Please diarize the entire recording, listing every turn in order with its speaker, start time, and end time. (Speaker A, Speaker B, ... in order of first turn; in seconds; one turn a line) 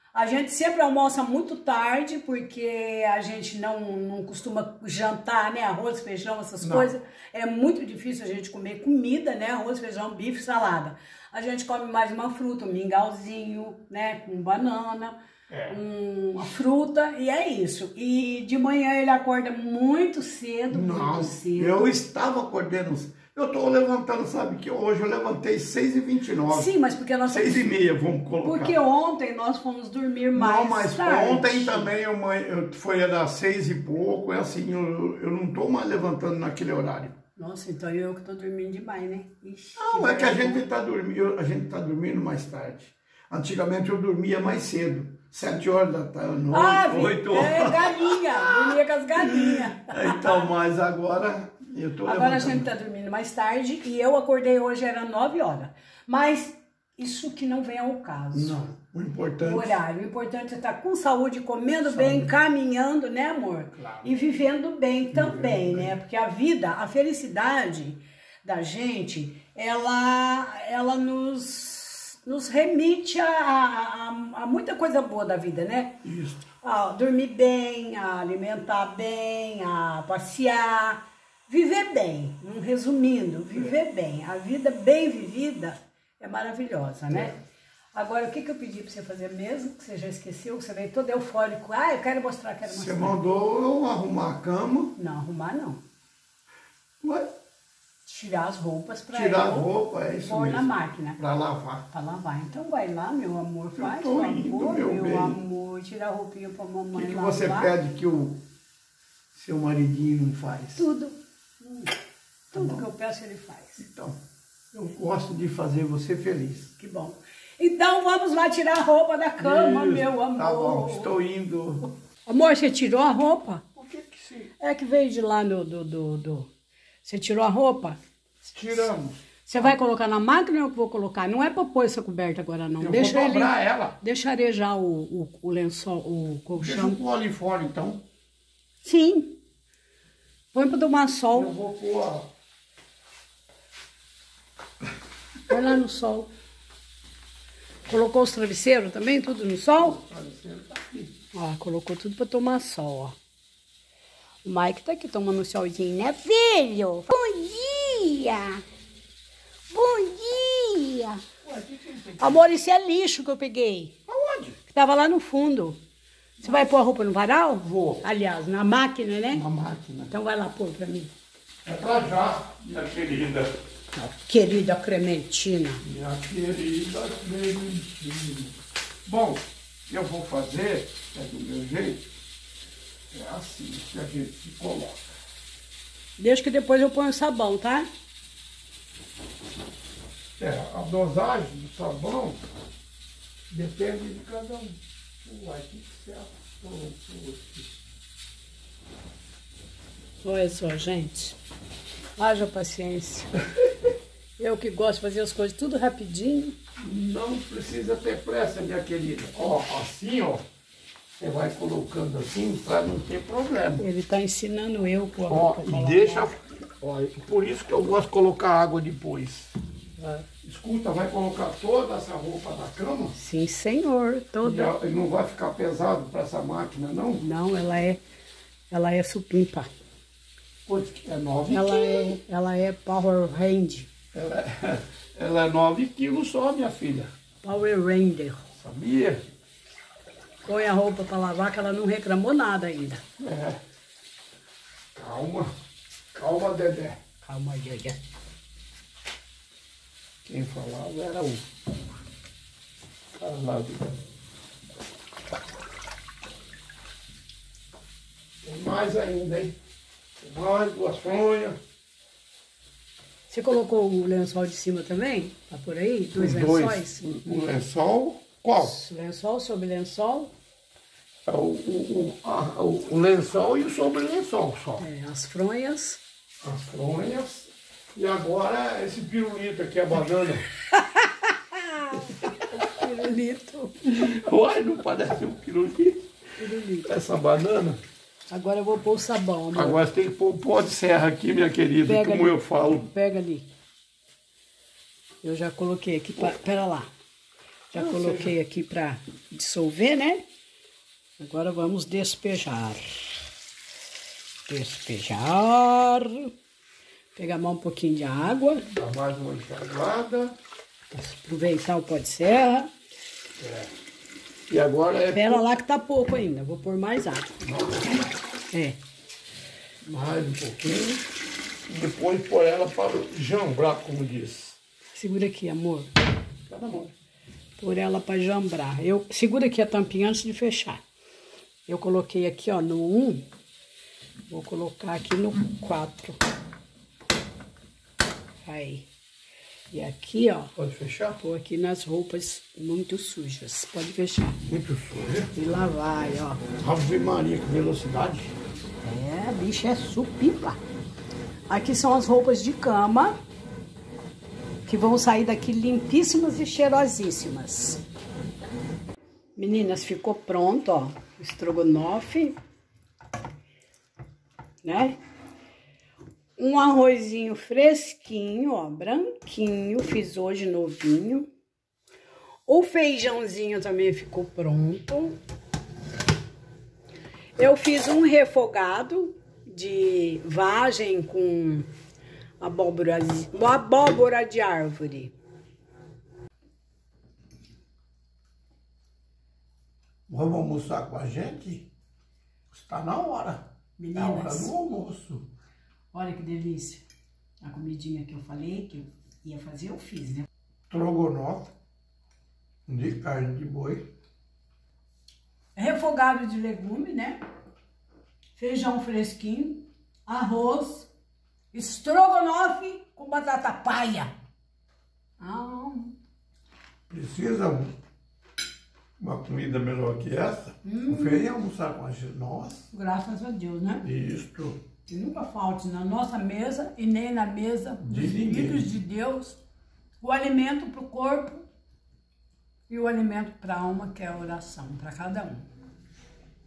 Speaker A: 0.1-21.9
Speaker B: 6.6-6.9
Speaker B: 15.5-15.8
Speaker B: 20.7-26.7
Speaker A: 26.5-27.8
Speaker B: 27.3-28.8
Speaker A: 28.4-31.9
Speaker B: 30.3-37.2
Speaker A: 37.4-40.6
Speaker B: 39.8-52.7
Speaker A: 46.5-50.5
Speaker A: 52.0-58.6
Speaker B: 58.3-59.8
Speaker A: 59.4-76.0
Speaker B: 61.9-62.3
Speaker B: 63.7-64.1
Speaker B: 65.1-65.9
Speaker B: 76.0-76.5
Speaker A: 76.6-87.4
Speaker B: 87.1-87.4
Speaker A: 87.9-93.2
Speaker B: 92.7-95.0
Speaker A: 95.0-95.8
Speaker B: 97.0-97.4
Speaker A: 98.1-101.2
Speaker B: 99.1-101.9
Speaker A: 101.9-107.7
Speaker B: 103.8-105.4
Speaker B: 106.9-108.4
Speaker B: 109.3-110.9
Speaker A: 110.8-111.9
Speaker A: 112.5-113.8
Speaker B: 112.5-112.8
Speaker B: 113.8-114.2
Speaker B: 114.7-116.7
Speaker A: 116.8-121.1
Speaker B: 119.4-121.9
Speaker A: 122.3-123.7
Speaker B: 123.8-124.5
Speaker A: 124.6-126.5
Speaker A: 127.0-128.0
Speaker B: 128.4-129.7
Speaker A: 129.5-137.0
Speaker B: 132.8-134.0
Speaker B: 136.6-138.0
Speaker A: 138.8-139.4
Speaker A: 140.5-141.6
Speaker B: 141.3-142.3
Speaker A: 145.5-146.3
Speaker A: 147.9-150.0
Speaker B: 149.8-151.2
Speaker A: 151.3-153.2
Speaker A: 154.4-158.6
Speaker A: 159.7-161.2
Speaker B: 161.4-162.4
Speaker A: 162.2-164.0
Speaker B: 164.1-164.6
Speaker A: 164.7-165.8
Speaker A: 166.4-169.4
Speaker B: 167.6-168.0
Speaker B: 169.3-170.1
Speaker A: 170.1-171.1
Speaker B: 171.7-173.5
Speaker A: 173.9-175.8
Speaker B: 175.8-182.1
Speaker B: 183.1-185.0
Speaker A: 186.2-187.9
Speaker B: 190.4-192.4
Speaker B: 193.5-197.7
Speaker A: 200.2-201.4
Speaker A: 202.2-203.3
Speaker A: 204.4-206.6
Speaker B: 206.8-210.4
Speaker B: 211.2-213.8
Speaker A: 213.8-216.3
Speaker B: 215.3-223.1
Speaker A: 223.2-224.7
Speaker B: 224.4-227.2
Speaker A: 227.2-228.0
Speaker A: 228.7-229.7
Speaker B: 230.7-232.2
Speaker A: 231.5-233.9
Speaker B: 234.1-237.1
Speaker A: 237.4-238.5
Speaker B: 238.6-239.2
Speaker A: 240.5-243.0
Speaker B: 243.2-243.6
Speaker B: 244.9-245.5
Speaker B: 246.1-247.0
Speaker A: 247.2-248.0
Speaker B: 250.2-251.4
Speaker B: 253.2-254.0
Speaker B: 258.4-259.6
Speaker B: 260.2-261.6
Speaker A: 263.3-267.5
Speaker B: 266.2-268.8
Speaker A: 268.6-270.3
Speaker B: 271.3-274.8
Speaker A: 274.8-276.0
Speaker B: 276.4-280.5
Speaker A: 280.7-284.1
Speaker B: 281.9-282.6
Speaker B: 283.9-286.1
Speaker A: 286.4-286.9
Speaker B: 286.9-287.8
Speaker A: 288.3-289.8
Speaker B: 289.5-292.9
Speaker A: 291.9-293.5
Speaker A: 295.2-296.9
Speaker A: 297.7-300.3
Speaker B: 297.8-298.4
Speaker A: 301.2-303.2
Speaker A: 304.5-306.3
Speaker A: 307.2-308.7
Speaker B: 308.7-310.4
Speaker A: 310.9-312.7
Speaker B: 313.4-313.7
Speaker B: 314.5-315.4
Speaker A: 315.1-317.4
Speaker B: 317.4-318.1
Speaker A: 318.5-318.8
Speaker B: 319.8-321.0
Speaker B: 321.7-324.6
Speaker A: 324.9-325.9
Speaker B: 326.5-326.9
Speaker A: 327.6-330.8
Speaker A: 331.7-333.3
Speaker A: 334.3-336.2
Speaker A: 338.5-338.9
Speaker A: 339.7-340.5
Speaker B: 340.6-341.2
Speaker A: 341.2-344.4
Speaker B: 344.5-345.3
Speaker A: 345.3-346.4
Speaker B: 346.6-348.4
Speaker A: 348.8-350.6
Speaker A: 351.5-353.1
Speaker A: 354.7-357.8
Speaker A: 359.4-362.4
Speaker A: 364.6-365.0
Speaker A: 366.4-371.3
Speaker A: 372.5-375.2
Speaker A: 377.4-381.7
Speaker A: 382.4-385.1
Speaker B: 390.1-391.7
Speaker B: 392.5-395.3
Speaker A: 393.8-394.5
Speaker A: 395.9-396.8
Speaker A: 397.4-400.3
Speaker B: 400.7-401.5
Speaker B: 402.7-403.9
Speaker A: 405.6-407.2
Speaker A: 408.4-410.9
Speaker A: 411.5-414.1
Speaker A: 415.2-415.9
Speaker B: 416.9-417.8
Speaker B: 419.0-422.7
Speaker A: 420.6-421.2
Speaker A: 422.7-423.9
Speaker B: 423.8-424.6
Speaker A: 424.9-429.4
Speaker B: 427.8-428.7
Speaker A: 430.0-431.4
Speaker A: 432.7-435.5